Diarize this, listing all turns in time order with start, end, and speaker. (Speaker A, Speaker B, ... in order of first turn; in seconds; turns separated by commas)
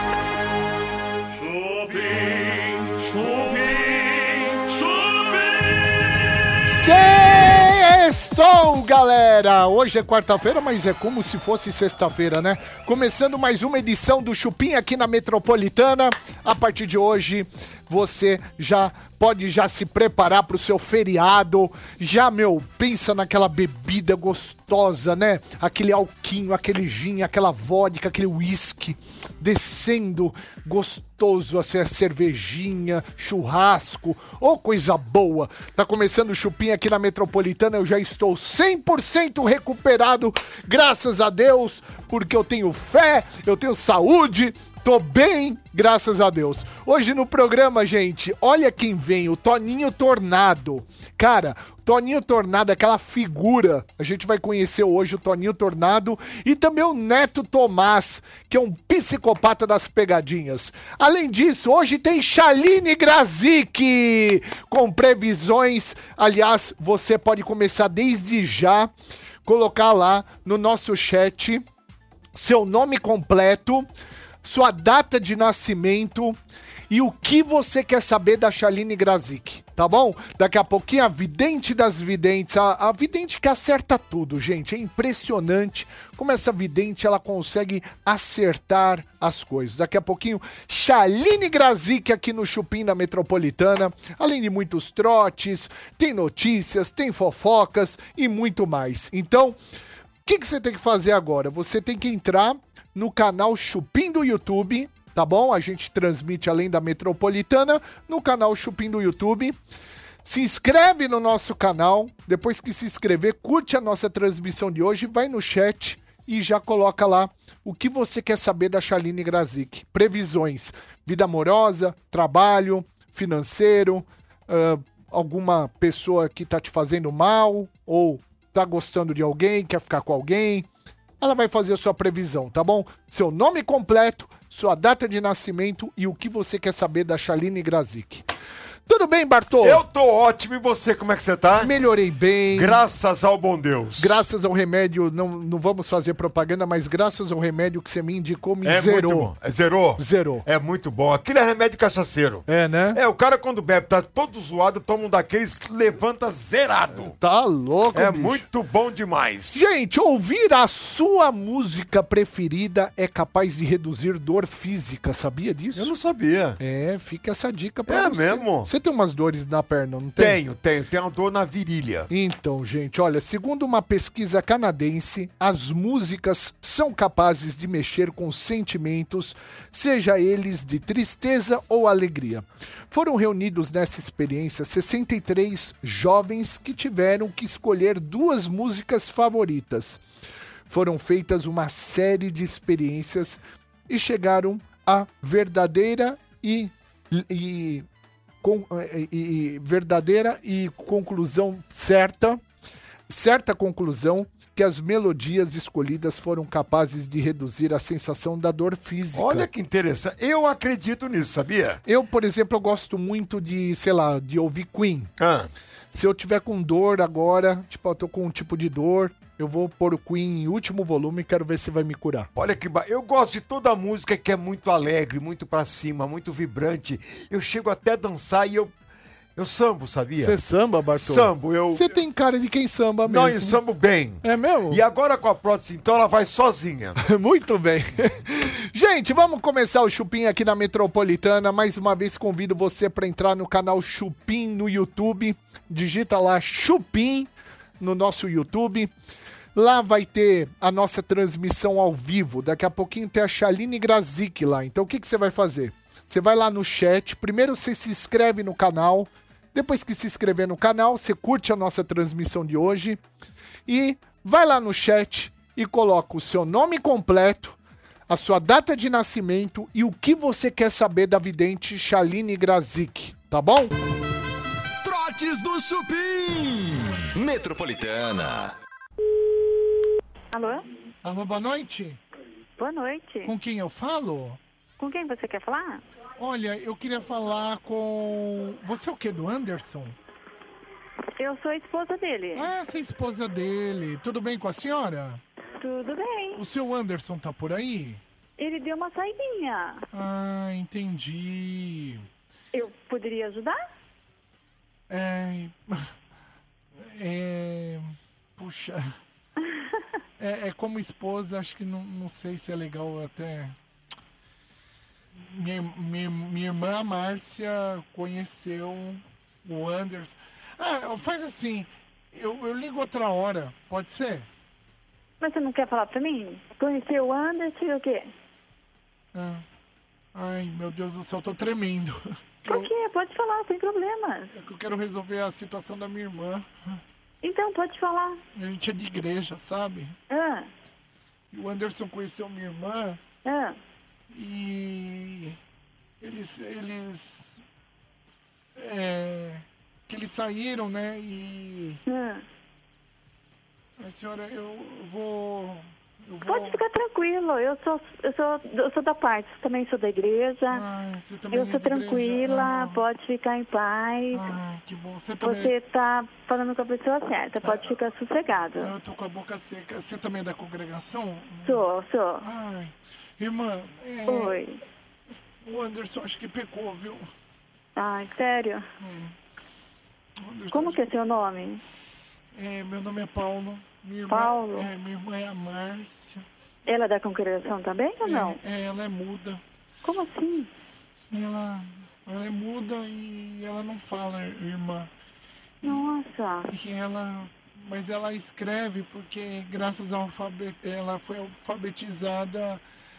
Speaker A: 6.7-68.9, Speaker A: 69.5-71.7, Speaker A: 72.3-73.9, Speaker A: 74.4-76.4, Speaker A: 76.9-99.6, Speaker A: 100.2-109.6, Speaker A: 110.2-130.7, Speaker A: 131.2-138.3, Speaker A: 138.9-139.8, Speaker B: 139.6-141.7, Speaker A: 141.6-142.8, Speaker B: 142.5-144.2, Speaker A: 144.0-149.3, Speaker B: 148.6-157.2, Speaker A: 150.0-150.4, Speaker A: 152.5-153.0, Speaker A: 157.0-158.4, Speaker B: 157.9-159.7, Speaker A: 159.5-165.9, Speaker B: 165.8-166.6, Speaker A: 166.6-170.4, Speaker B: 167.9-168.7, Speaker B: 170.2-172.1, Speaker A: 172.1-190.0, Speaker A: 190.7-197.9, Speaker A: 198.4-202.4, Speaker A: 203.1-209.5, Speaker B: 209.1-211.8, Speaker A: 211.8-215.1, Speaker B: 215.2-215.5, Speaker A: 215.9-222.3, Speaker B: 222.3-228.7, Speaker B: 229.4-230.3, Speaker A: 230.2-233.6, Speaker B: 230.9-231.9, Speaker B: 233.1-237.0, Speaker A: 234.2-234.8, Speaker A: 237.0-248.9, Speaker A: 249.6-263.0, Speaker A: 263.7-273.7, Speaker C: 274.8-278.5, Speaker D: 280.3-280.6, Speaker E: 281.0-282.0, Speaker D: 282.6-283.3, Speaker E: 283.2-284.4, Speaker D: 284.8-285.8, Speaker E: 286.2-290.0, Speaker D: 291.2-292.5, Speaker E: 292.4-295.2, Speaker D: 295.6-296.4, Speaker E: 296.4-298.0, Speaker D: 298.4-299.8, Speaker E: 299.9-302.1, Speaker D: 302.5-303.6, Speaker E: 304.9-305.9, Speaker E: 306.8-308.9, Speaker E: 310.2-313.6, Speaker E: 315.2-324.3, Speaker D: 325.2-328.1, Speaker E: 329.1-329.4, Speaker E: 330.1-332.7, Speaker D: 332.5-334.3, Speaker E: 334.3-336.5, Speaker D: 337.2-338.2, Speaker E: 338.4-340.0, Speaker D: 340.1-340.5, Speaker E: 341.3-343.0, Speaker D: 343.2-343.6, Speaker E: 344.1-345.4, Speaker E: 346.0-347.4, Speaker E: 348.6-351.8, Speaker D: 351.9-352.2, Speaker E: 353.8-356.6, Speaker D: 356.3-360.6, Speaker E: 360.5-362.8, Speaker D: 361.3-364.3, Speaker E: 364.1-365.5, Speaker D: 365.2-368.7, Speaker E: 368.6-371.6, Speaker D: 371.5-372.2, Speaker E: 372.2-374.4, Speaker D: 374.1-374.6, Speaker E: 375.4-377.1, Speaker D: 377.8-378.6, Speaker E: 378.8-379.1, Speaker E: 380.2-380.8, Speaker D: 380.5-381.6, Speaker E: 382.3-386.2, Speaker D: 384.1-384.7, Speaker D: 386.7-388.4, Speaker E: 388.0-389.4, Speaker D: 389.8-390.5, Speaker E: 391.1-394.9, Speaker E: 395.6-402.6, Speaker D: 395.6-396.5